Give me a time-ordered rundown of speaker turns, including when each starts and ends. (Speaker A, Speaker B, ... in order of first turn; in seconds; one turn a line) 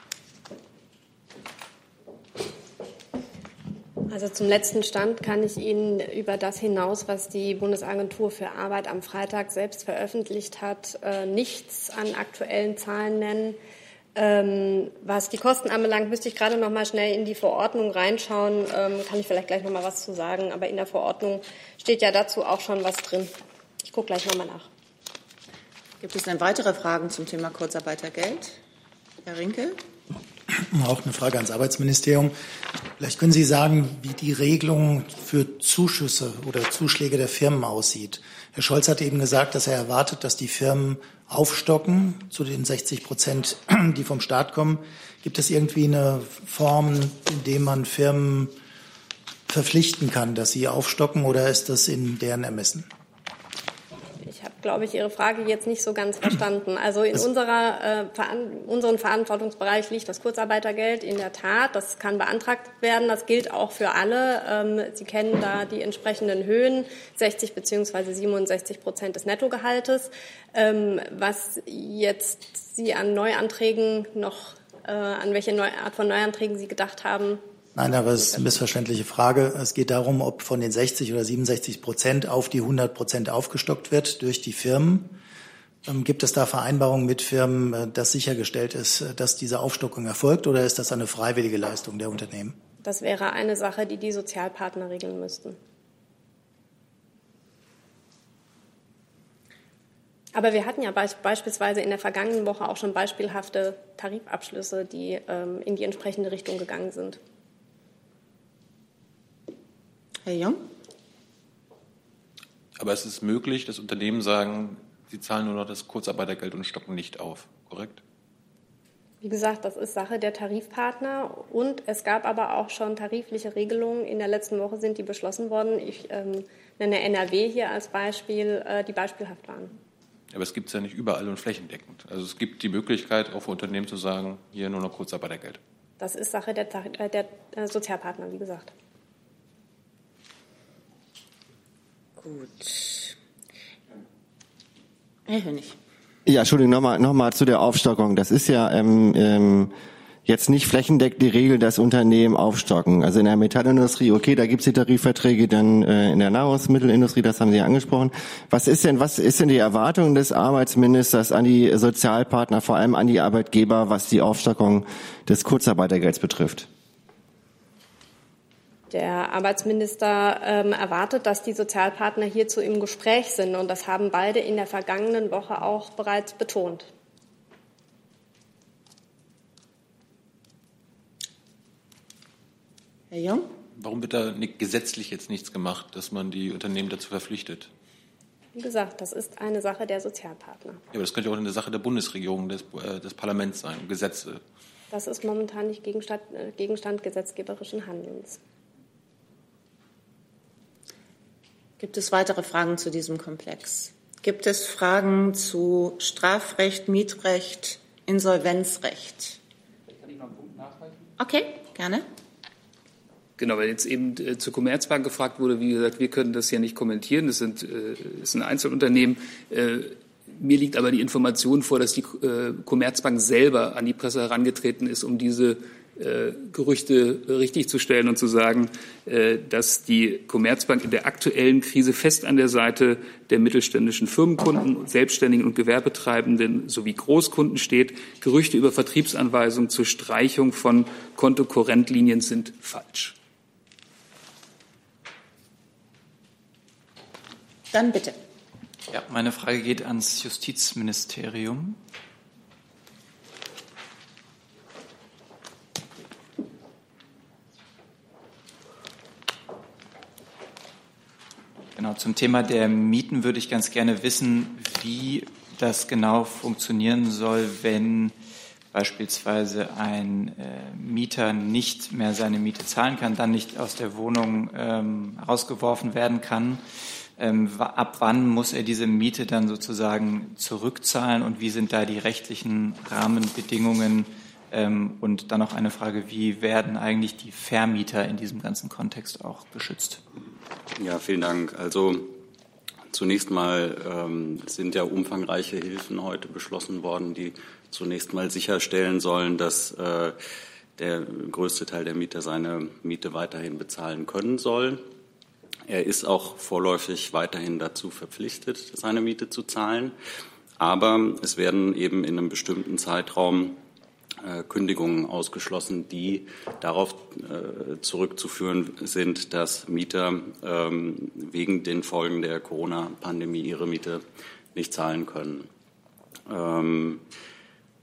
Speaker A: 4.1-13.6
Speaker A: 14.2-23.3
Speaker A: 23.8-24.7
Speaker B: 26.0-28.6
Speaker B: 29.2-29.8
Speaker C: 30.6-32.4
Speaker C: 33.0-48.5
Speaker C: 49.5-52.9
Speaker A: 54.2-77.4
Speaker C: 77.8-85.2
Speaker C: 85.9-92.6
Speaker A: 92.8-95.6
Speaker A: 100.3-107.2
Speaker B: 110.2-110.6
Speaker D: 112.8-118.0
Speaker A: 119.2-129.7
Speaker D: 130.3-135.6
Speaker A: 136.0-138.7
Speaker B: 142.2-143.2
Speaker B: 145.3-145.8
Speaker E: 146.3-149.7
Speaker E: 150.3-166.7
Speaker A: 168.9-176.9
Speaker B: 183.1-183.5
Speaker D: 183.8-187.7
Speaker A: 188.6-190.8
Speaker D: 190.9-194.4
Speaker A: 194.9-198.4
Speaker B: 201.8-209.4
Speaker F: 210.0-210.9
Speaker B: 211.2-212.1
Speaker F: 213.4-243.2
Speaker B: 247.7-248.2
Speaker G: 248.9-251.8
Speaker G: 261.8-268.1
Speaker G: 268.7-276.6
Speaker G: 277.2-290.0
Speaker H: 290.8-292.2
Speaker H: 292.9-300.2
Speaker H: 300.8-304.8
Speaker H: 305.7-309.9
Speaker H: 310.6-313.6
Speaker H: 314.2-324.0
Speaker H: 324.6-325.5
Speaker H: 326.3-327.0